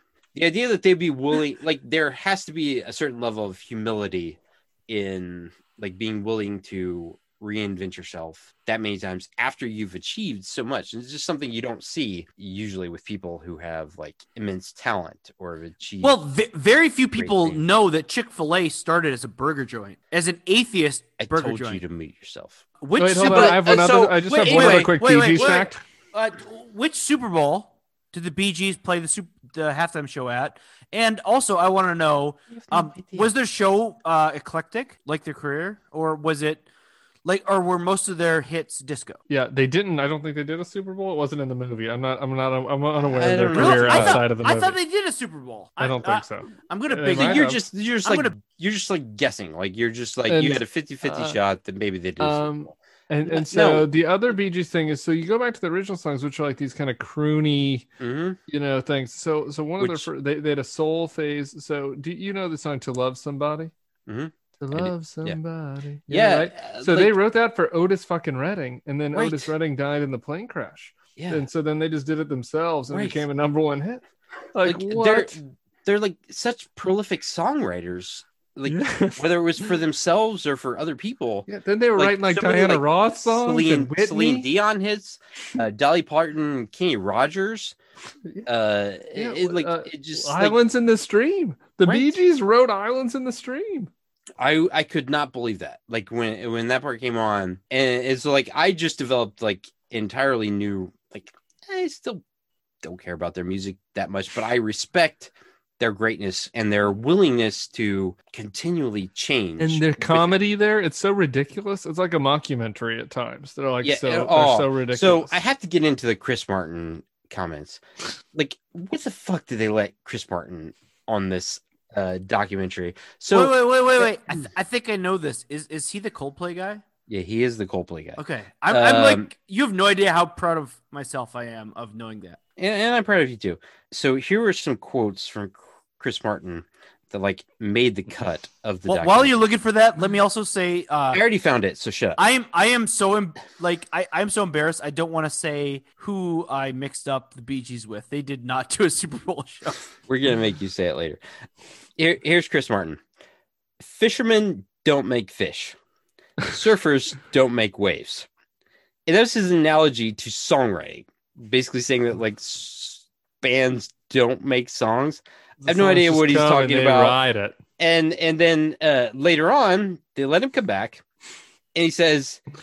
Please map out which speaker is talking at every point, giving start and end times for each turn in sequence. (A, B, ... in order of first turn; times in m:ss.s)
0:00.3-0:16.2 A
0:16.0-0:21.8 B
0:17.2-0:17.6 A
0:21.2-0:22.6 A
0:22.8-0:36.6 B
0:23.0-0:25.8 C
0:23.2-0:25.7 A
0:32.5-0:33.3 A
0:37.2-0:39.2 B
0:39.3-0:44.8 C
0:43.0-0:44.2 A
0:43.5-0:47.5 B
0:45.8-0:47.6 C
0:47.1-0:52.5 A
0:48.0-0:48.4 B
0:50.3-0:51.4 C
0:52.2-0:57.9 C
0:53.3-0:53.9 A
0:58.0-0:58.4 A
0:58.5-1:03.7 C
0:59.8-1:00.1 A
1:04.1-1:05.4 A
1:04.6-1:14.0 C
1:06.1-1:07.1 A
1:09.1-1:09.5 A
1:11.2-1:11.4 A
1:12.9-1:13.2 A
1:14.5-1:15.4 C
1:14.6-1:27.8 A
1:18.7-1:19.2 C
1:21.5-1:24.5 C
1:28.4-1:30.6 A
1:29.1-1:33.9 C
1:31.8-1:32.1 A
1:34.4-1:42.2 A
1:42.8-1:50.4 A
1:49.6-1:55.3 C
1:53.8-1:57.8 A
1:58.3-2:04.1 A
2:03.3-2:06.8 B
2:07.1-2:09.3 A
2:08.2-2:12.4 B
2:12.6-2:19.4 A
2:18.9-2:21.2 B
2:21.1-2:22.2 A
2:22.2-2:29.8 B
2:30.1-2:31.2 A
2:32.0-2:33.0 A
2:33.8-2:35.8 A
2:36.4-2:38.3 A
2:39.0-2:47.2 A
2:45.6-2:47.6 C
2:47.8-2:51.0 A
2:51.7-2:52.4 A